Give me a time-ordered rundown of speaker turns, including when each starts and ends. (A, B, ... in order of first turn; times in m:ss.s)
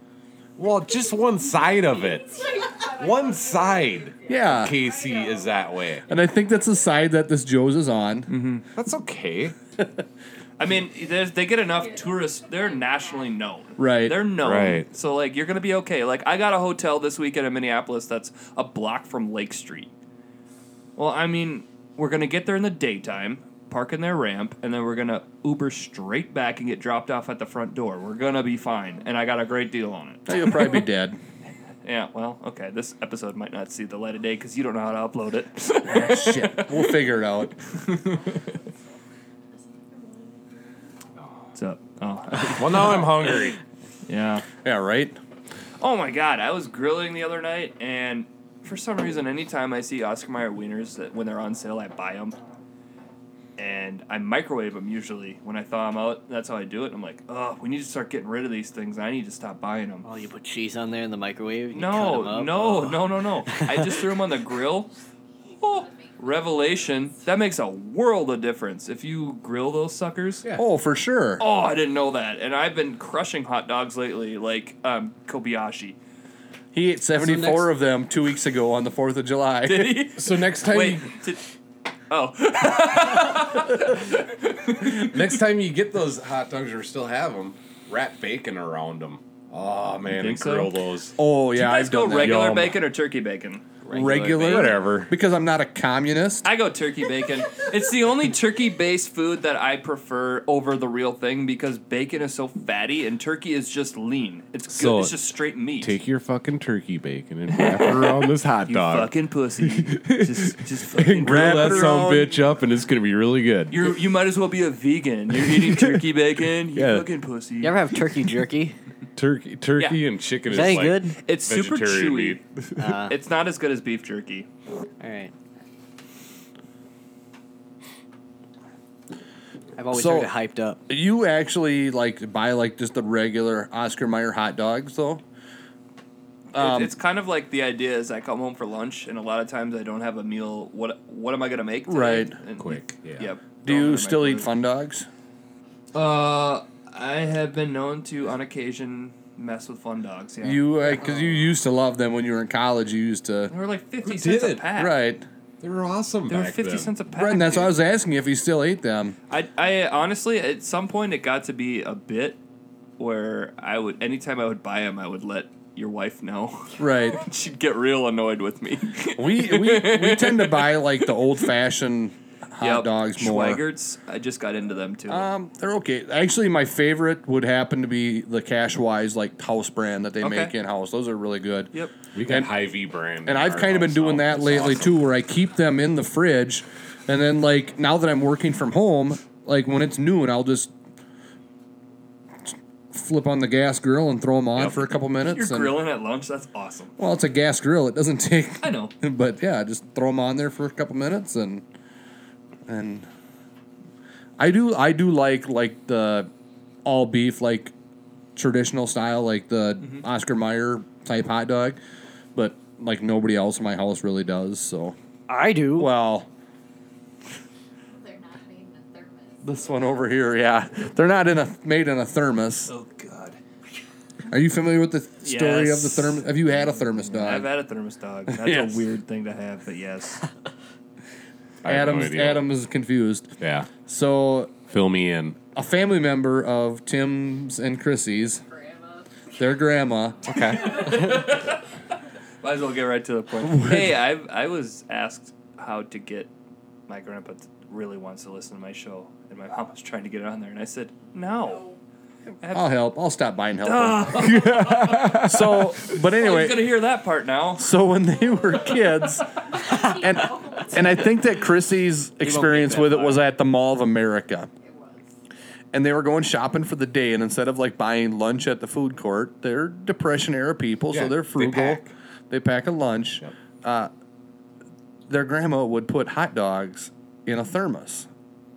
0:00.6-0:06.0 A
0:00.6-0:05.7 B
0:04.3-0:04.7 C
0:06.1-0:08.3 C
0:08.3-0:08.6 D
0:08.7-0:09.5 A
0:10.6-0:19.9 D
0:11.7-0:13.4 B
0:13.8-0:14.2 C
0:14.4-0:14.9 A
0:21.0-0:30.8 D
0:30.3-0:31.2 C
0:31.8-0:36.9 D
0:35.8-0:37.6 C
0:37.9-0:38.2 D
0:39.7-0:40.4 B
0:41.5-0:43.3 D
0:42.5-0:43.6 A
0:44.1-0:44.4 D
0:44.6-0:45.2 C
0:45.8-0:52.4 D
0:53.6-1:00.0 D
1:00.0-1:04.0 E
1:01.7-1:04.9 D
1:05.4-1:06.9 B
1:05.6-1:10.4 D
1:10.6-1:11.4 C
1:11.4-1:16.0 D
1:16.7-1:20.0 C
1:17.2-1:17.6 E
1:19.6-1:21.4 D
1:20.2-1:21.1 A
1:22.1-1:25.4 D
1:24.7-1:31.2 A
1:30.1-1:30.7 D
1:31.2-1:32.4 C
1:31.6-1:33.7 D
1:32.2-1:32.8 A
1:33.8-1:34.5 E
1:33.9-1:36.5 C
1:34.0-1:35.1 A
1:36.4-1:45.9 D
1:44.7-1:45.2 A
1:45.8-1:53.9 A
1:47.5-1:52.2 D
1:51.2-1:52.3 C
1:53.7-1:57.8 D
1:55.3-1:56.0 A
1:56.7-1:57.1 A
1:57.6-1:58.8 E
1:59.2-2:02.8 A
2:00.5-2:01.2 E
2:01.1-2:02.4 D
2:02.8-2:03.1 E
2:03.1-2:04.5 D
2:05.0-2:05.3 E
2:09.8-2:10.8 E
2:09.9-2:10.3 C
2:10.9-2:15.2 C
2:16.5-2:16.9 C
2:16.6-2:24.5 D
2:21.9-2:22.4 C
2:22.6-2:23.3 A
2:23.6-2:25.1 C
2:25.9-2:31.5 D
2:30.4-2:33.5 C
2:33.5-2:35.0 D
2:34.0-2:34.6 A
2:34.8-2:35.2 C
2:35.6-2:36.9 A
2:36.3-2:37.7 D
2:37.2-2:39.2 C
2:39.3-2:42.4 D
2:43.0-2:51.1 D
2:46.8-2:47.2 C
2:49.2-2:53.6 C
2:52.6-2:55.3 D
2:55.1-3:01.7 C
3:00.2-3:00.5 D
3:02.1-3:05.0 A
3:02.2-3:02.5 C
3:03.2-3:10.7 C
3:12.4-3:15.7 C
3:15.2-3:16.9 D
3:17.0-3:21.6 C
3:18.6-3:18.9 D
3:22.6-3:23.1 C
3:24.4-3:26.3 C
3:26.8-3:27.7 C
3:28.4-3:31.8 C
3:32.3-3:35.0 C
3:35.3-3:35.9 E
3:35.8-3:36.3 C
3:37.9-3:39.9 B
3:39.4-3:42.7 C
3:42.7-3:43.4 D
3:44.3-3:47.5 C
3:45.2-3:46.3 D
3:47.1-3:50.2 D
3:48.3-3:48.8 C
3:51.6-3:52.5 A
3:51.6-3:53.3 C
3:53.4-3:53.7 A
3:53.8-3:54.5 C
3:54.7-3:55.4 A
3:55.5-3:58.4 C
3:58.3-3:59.1 B
3:59.4-4:00.5 C
4:00.2-4:00.9 A
4:00.3-4:01.2 B
4:00.4-4:01.6 D
4:02.4-4:06.3 D
4:03.4-4:04.0 C
4:06.9-4:11.7 D
4:11.4-4:11.8 B
4:12.4-4:12.7 D
4:12.5-4:14.3 C
4:13.6-4:15.3 D
4:14.1-4:15.7 A
4:15.1-4:16.7 C
4:15.9-4:17.7 D
4:17.6-4:24.5 C
4:18.3-4:18.8 B
4:19.5-4:21.4 B
4:22.2-4:23.2 E
4:24.6-4:25.1 B
4:25.7-4:33.9 C
4:30.9-4:31.9 A
4:35.1-4:38.1 C